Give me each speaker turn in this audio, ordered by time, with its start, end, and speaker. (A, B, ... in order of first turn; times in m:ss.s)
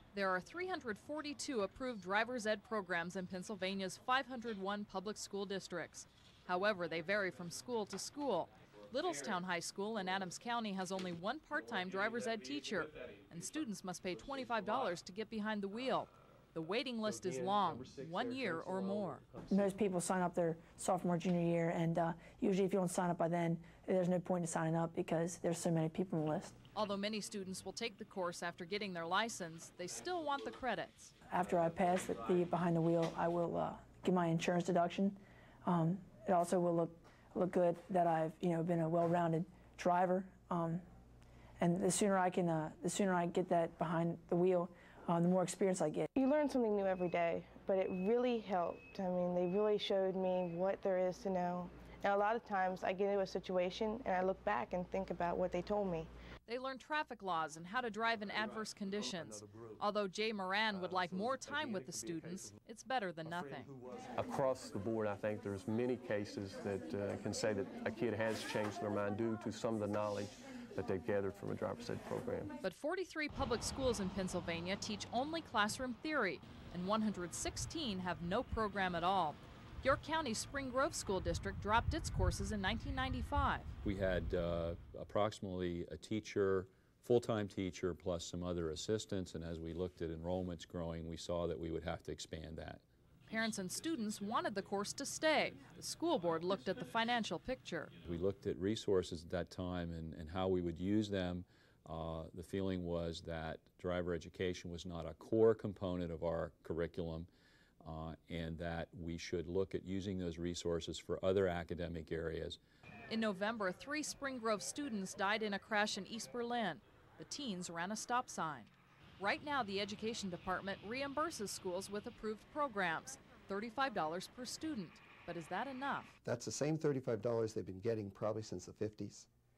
0:00.1-0:19.2 A
0:17.1-0:19.6 B
0:19.5-0:26.5 C
0:26.7-0:31.1 A
0:31.3-0:40.8 C
0:41.6-0:46.1 C
0:46.1-0:56.1 D
0:56.4-1:03.7 A
1:04.1-1:12.5 B
1:12.6-1:23.7 A
1:23.8-1:32.8 E
1:33.3-1:37.9 A
1:38.0-1:47.3 E
1:47.8-1:52.6 E
1:53.1-2:06.1 A
2:06.2-2:09.3 F